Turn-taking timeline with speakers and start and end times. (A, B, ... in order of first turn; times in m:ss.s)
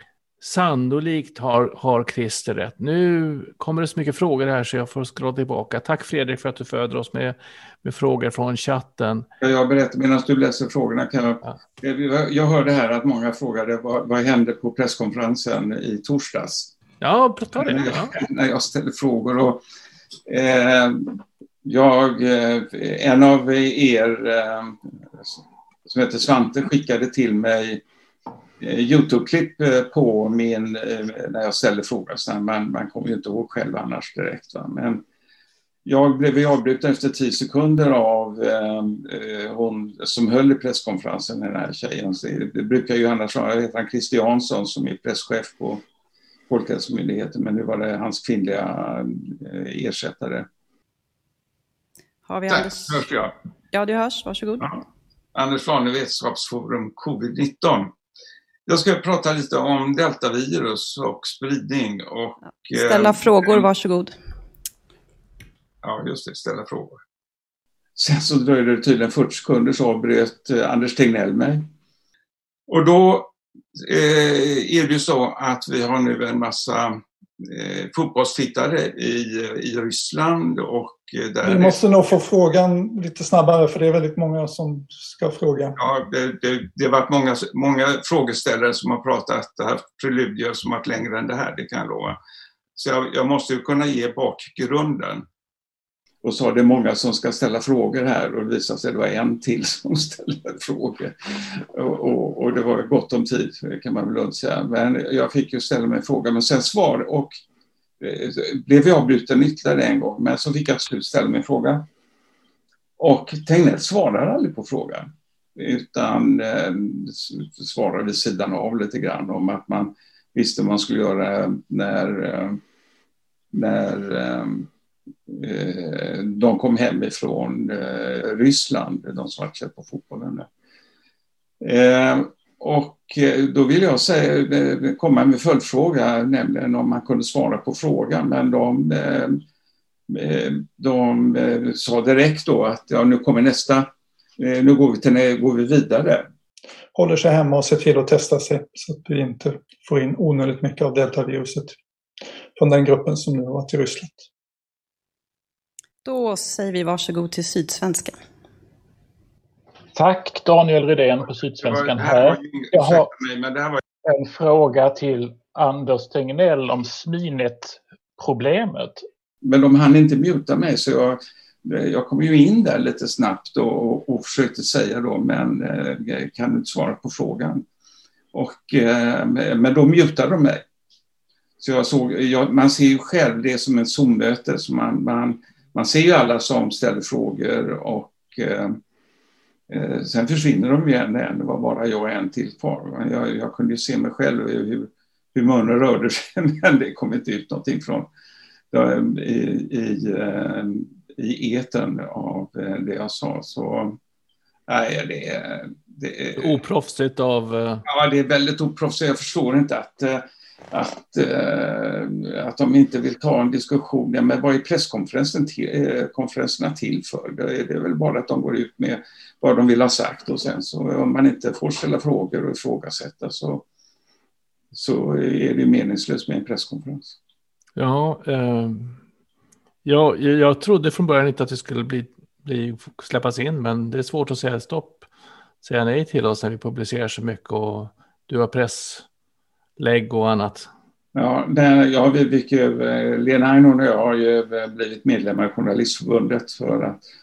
0:00.4-0:09.3 A
0:09.4-0:16.7 B
0:17.0-0:18.2 A
0:17.6-0:19.6 B
0:20.3-0:27.8 B
0:28.6-0:35.0 B
0:35.8-0:45.8 B
0:46.5-0:50.5 B
0:52.3-0:53.0 C
0:52.5-0:53.4 B
0:53.7-0:54.7 C
0:55.3-0:57.9 B
0:58.7-1:03.6 B
1:02.7-1:04.1 C
1:05.8-1:07.0 B
1:08.0-1:11.7 B
1:12.7-1:21.8 B
1:21.5-1:25.8 D
1:25.8-1:32.2 B
1:32.8-1:35.3 B
1:36.2-1:47.4 B
1:48.0-1:51.9 B
1:53.0-2:02.6 B
2:03.5-2:04.7 B
2:05.3-2:10.5 B
2:11.6-2:19.4 B
2:20.1-2:26.3 B
2:27.0-2:31.8 D
2:32.6-2:34.3 D
2:36.0-2:38.2 C
2:40.0-2:43.1 E
2:41.6-2:43.8 B
2:44.0-2:49.0 E
2:49.4-2:57.6 B
2:58.3-3:00.6 B
3:01.6-3:08.8 B
3:09.7-3:18.1 B
3:18.7-3:24.0 B
3:24.7-3:26.6 B
3:26.4-3:27.9 A
3:27.8-3:43.6 B
3:44.7-3:47.2 B
3:47.8-3:49.0 A
3:49.8-3:55.1 A
3:55.6-3:59.1 A
3:59.8-4:00.7 A
4:01.1-4:07.0 B